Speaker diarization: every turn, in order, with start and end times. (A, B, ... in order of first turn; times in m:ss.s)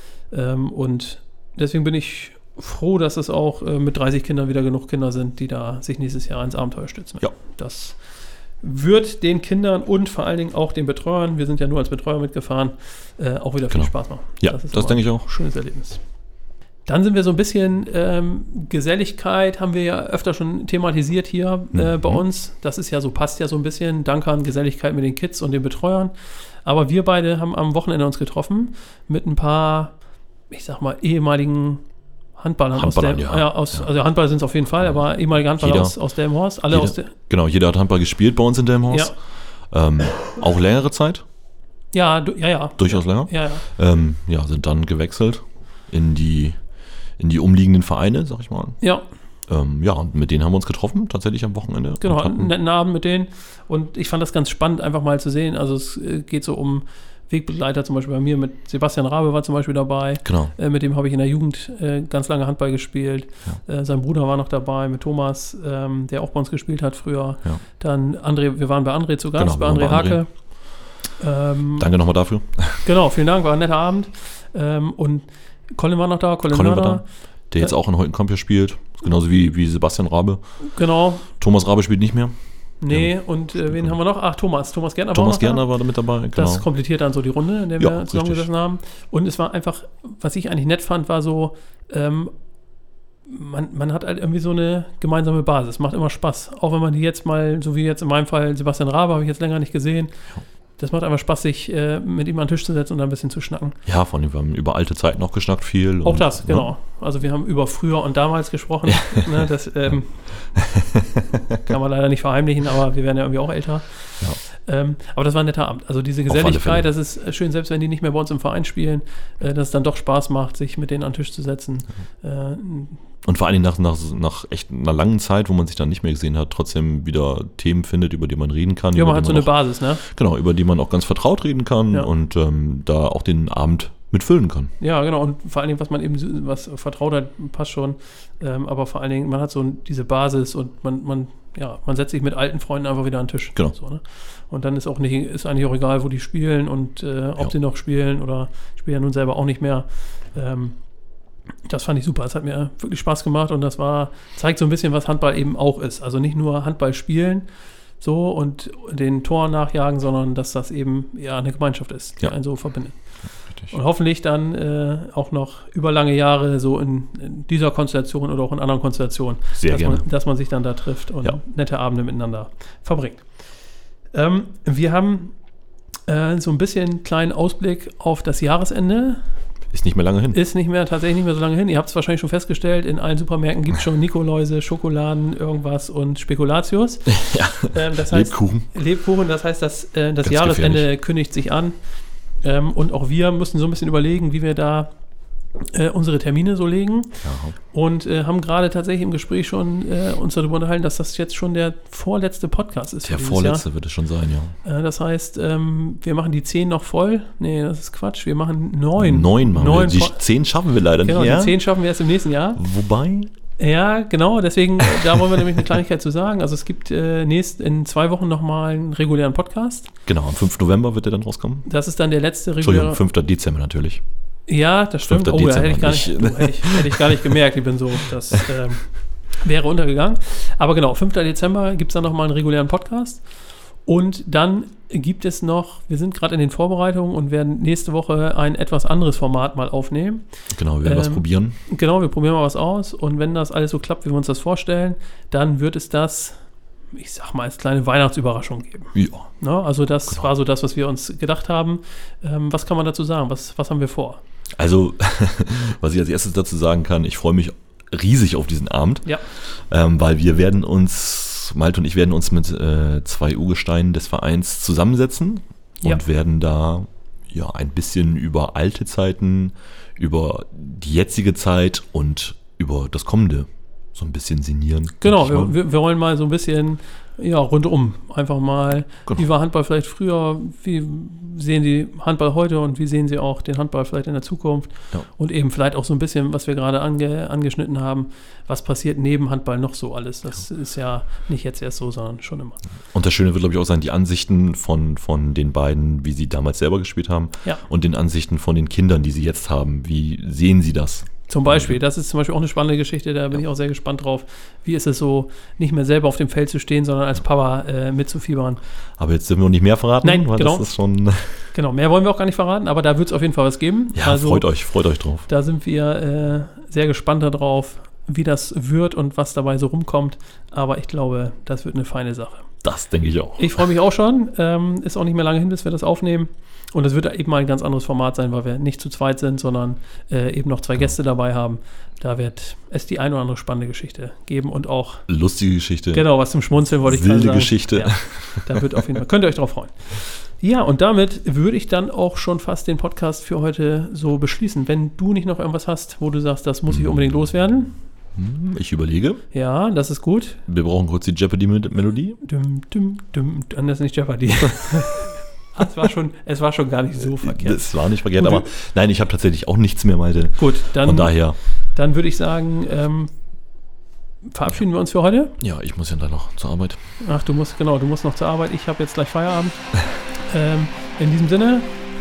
0:00.3-0:08.0 A
0:08.6-0:16.0 A
0:13.7-0:15.3 B
0:16.9-0:26.1 A
0:21.7-0:22.2 B
0:26.6-0:30.0 A
0:30.5-0:31.8 A
0:32.4-0:37.1 A
0:32.7-0:33.9 B
0:35.6-0:36.0 B
0:36.7-0:39.1 B
0:38.9-0:39.1 A
0:39.7-0:41.2 B
0:41.9-0:43.6 A
0:42.8-0:46.6 B
0:47.2-0:48.8 B
0:49.5-0:52.5 B
0:52.0-1:10.3 A
1:00.2-1:00.5 B
1:09.4-1:10.2 B
1:11.2-1:11.9 A
1:11.8-1:12.8 B
1:12.8-1:17.0 A
1:16.5-1:20.4 B
1:20.8-1:21.3 A
1:21.4-1:22.3 B
1:22.8-1:25.7 A
1:22.9-1:23.1 B
1:25.1-1:26.7 B
1:26.3-1:32.3 A
1:27.8-1:28.5 B
1:33.3-1:40.1 A
1:40.8-1:43.8 A
1:43.9-1:46.7 B
1:46.0-1:50.2 A
1:50.6-1:51.4 B
1:51.6-2:03.0 A
1:56.3-1:56.9 B
2:03.2-2:14.7 B
2:09.0-2:10.0 A
2:14.8-2:30.8 A
2:31.7-2:37.4 A
2:38.0-2:43.0 A
2:43.7-2:53.2 A
2:49.6-2:50.0 B
2:54.1-2:55.3 A
2:56.1-2:59.2 A
2:59.7-3:00.4 B
3:00.3-3:07.2 A
3:07.1-3:08.7 B
3:07.7-3:11.8 A
3:10.2-3:10.9 B
3:12.4-3:14.9 A
3:15.6-3:23.6 A
3:17.2-3:17.6 B
3:23.0-3:24.6 B
3:24.6-3:30.2 A
3:29.0-3:31.6 B
3:31.0-3:32.6 A
3:32.6-3:33.3 B
3:33.6-3:39.9 A
3:40.1-3:41.7 B
3:41.7-3:43.0 A
3:42.6-3:44.0 B
3:44.5-3:48.9 A
3:45.1-3:47.4 B
3:49.4-3:53.2 A
3:53.9-4:00.2 A
4:00.5-4:01.6 B
4:00.8-4:06.4 A
4:06.9-4:14.2 A
4:09.0-4:09.3 B
4:14.6-4:35.6 B
4:35.0-4:52.6 A
4:52.9-5:01.8 B
5:01.3-5:08.6 A
5:09.0-5:11.5 B
5:10.0-5:10.7 A
5:11.5-5:14.5 A
5:14.0-5:15.3 B
5:15.3-5:22.5 A
5:22.6-5:23.6 B
5:23.4-5:35.0 A
5:35.1-5:36.1 B
5:35.9-5:47.8 A
5:36.8-5:38.5 B
5:46.7-5:47.0 B
5:48.2-5:49.2 B
5:49.3-5:50.4 A
5:50.5-5:52.2 B
5:52.2-5:58.5 A
5:57.1-6:01.4 B
6:00.4-6:01.2 A
6:01.8-6:03.1 A
6:04.3-6:05.3 A
6:05.4-6:06.8 B
6:07.0-6:09.6 A
6:10.3-6:11.7 A